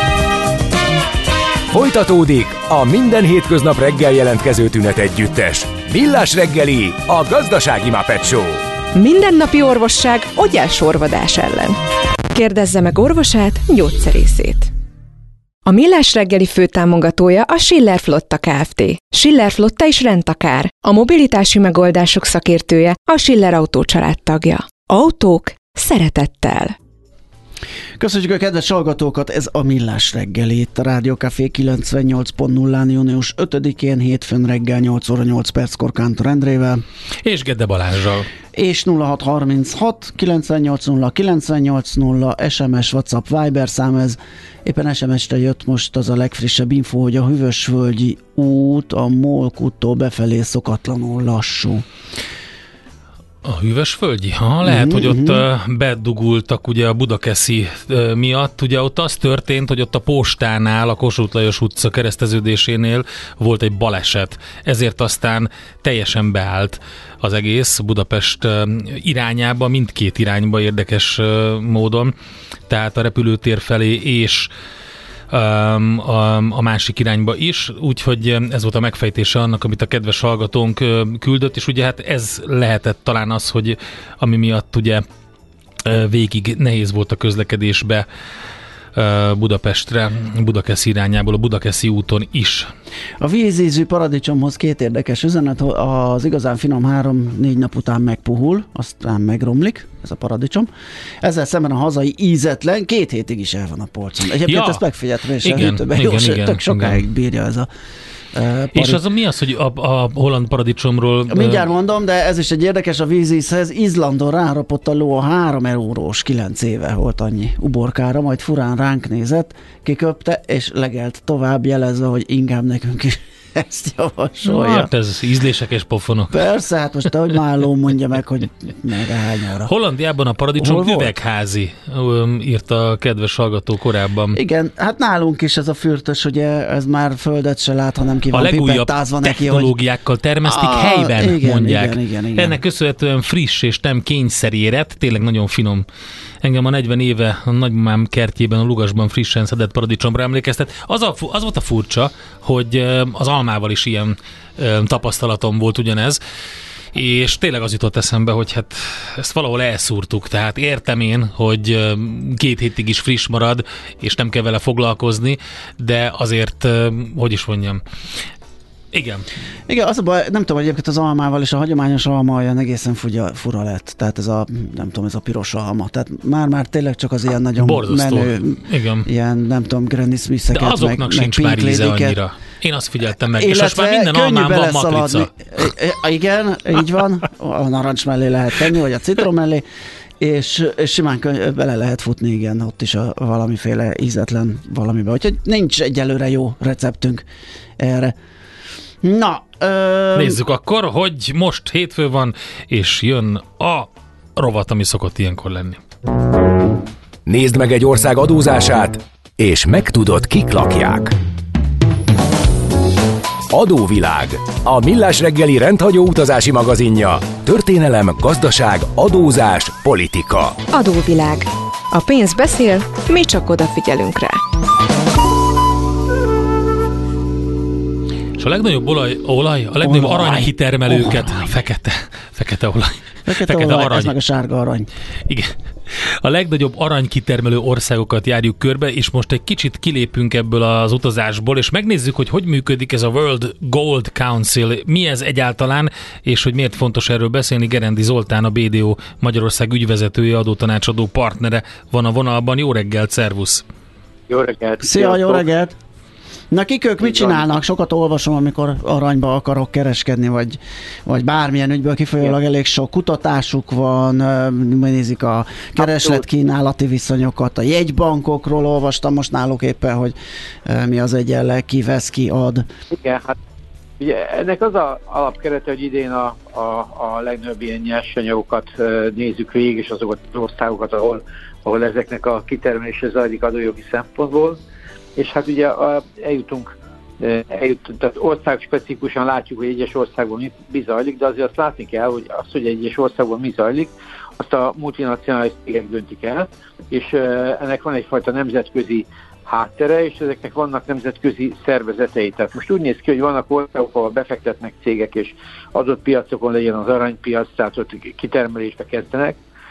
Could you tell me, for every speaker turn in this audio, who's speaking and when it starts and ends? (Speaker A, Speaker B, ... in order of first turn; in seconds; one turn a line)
Speaker A: 1.7-8.6
Speaker B: 8.9-11.8
Speaker B: 12.3-14.7
Speaker B: 15.6-26.8
Speaker C: 28.0-36.8
Speaker D: 37.2-38.3
Speaker C: 38.5-51.8
Speaker D: 53.4-72.1
Speaker C: 54.6-55.4
Speaker D: 72.7-74.5
Speaker D: 75.3-85.0
Speaker D: 85.8-88.0
Speaker D: 88.9-92.7
Speaker C: 93.2-100.7
Speaker C: 101.2-107.7
Speaker D: 104.5-104.8
Speaker D: 105.4-107.0
Speaker C: 108.3-109.0
Speaker D: 108.7-111.6
Speaker C: 111.3-124.9
Speaker D: 124.4-126.4
Speaker C: 126.3-129.7
Speaker D: 129.7-134.4
Speaker C: 130.6-131.1
Speaker C: 134.3-139.7
Speaker D: 138.3-145.8
Speaker C: 140.4-142.6
Speaker D: 146.4-156.2
Speaker D: 156.9-167.8
Speaker D: 168.9-169.2
Speaker C: 169.7-182.2
Speaker D: 177.6-179.1
Speaker D: 180.5-185.3
Speaker C: 183.3-189.6
Speaker C: 190.2-197.2
Speaker C: 197.8-198.1
Speaker C: 199.0-200.4
Speaker D: 200.1-205.8
Speaker A: 207.2-211.1
Speaker A: 213.5-220.6
Speaker B: 220.7-224.4
Speaker D: 228.4-234.1
Speaker C: 229.8-231.4
Speaker C: 233.3-234.9
Speaker D: 235.3-253.6
Speaker E: 254.3-255.4
Speaker C: 254.8-255.8
Speaker C: 256.5-272.6
Speaker E: 257.0-257.4
Speaker E: 265.8-266.2
Speaker E: 272.9-273.4
Speaker E: 274.0-284.6
Speaker E: 285.1-309.4